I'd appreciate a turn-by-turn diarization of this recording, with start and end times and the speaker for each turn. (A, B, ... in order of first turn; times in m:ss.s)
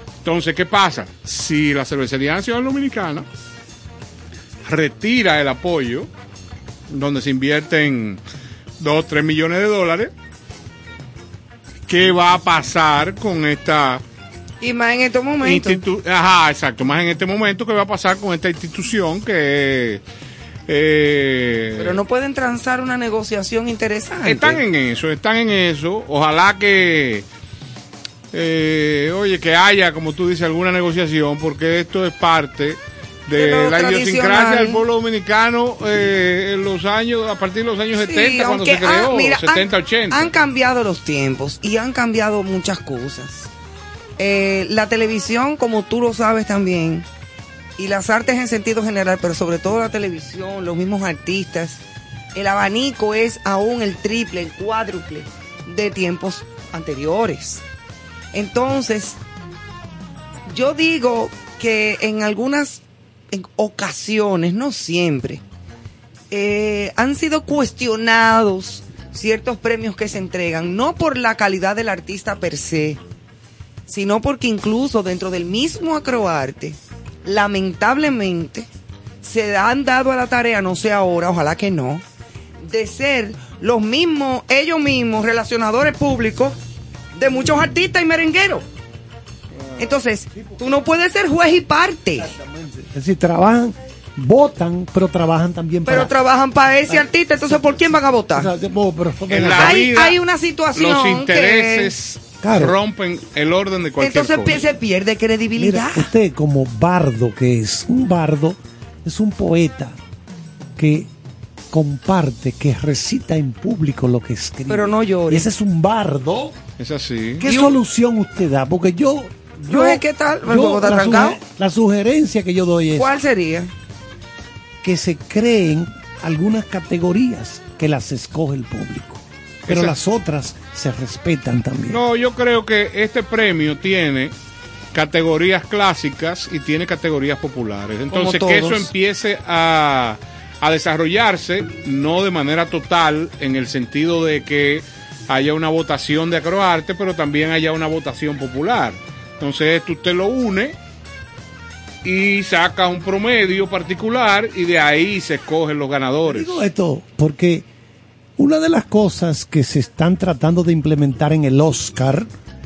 0:00.2-0:03.3 A
0:04.6-0:06.1 A
0:06.9-0:08.2 A
0:08.8-0:10.1 A
0:11.9-0:14.0 A
0:14.6-0:15.8 B
0:15.4-0:20.0 A
0:20.7-0:22.0 A
0:21.8-0:24.6 B
0:24.2-0:27.2 A
0:28.3-0:40.3 A
0:33.3-0:34.8 B
0:37.9-0:43.5 B
0:44.2-0:47.1 B
0:47.8-0:51.8 B
0:52.3-0:57.6 B
0:58.3-0:59.2 B
1:00.5-1:05.4 B
1:06.3-1:13.0 B
1:13.9-1:18.7 B
1:19.2-1:22.0 B
1:22.6-1:26.6 B
1:27.2-1:28.6 B
1:29.8-1:32.3 B
1:30.3-1:30.9 C
1:32.2-1:36.1 C
1:35.9-1:38.5 B
1:38.3-1:39.9 C
1:39.3-1:40.2 A
1:39.4-1:41.9 B
1:40.7-1:44.7 A
1:42.4-1:42.8 C
1:44.0-1:46.1 B
1:45.6-1:50.0 C
1:50.8-1:51.1 C
1:51.7-1:56.6 C
1:54.7-1:55.5 B
1:56.8-1:57.5 A
1:57.4-2:03.2 C
1:57.4-1:57.8 B
1:59.7-2:01.4 B
2:03.0-2:03.7 B
2:04.8-2:12.0 C
2:09.7-2:10.0 A
2:11.9-2:14.3 A
2:14.9-2:30.8 A
2:18.1-2:18.9 B
2:32.0-2:36.6 A
2:36.3-2:37.7 C
2:38.4-2:42.3 C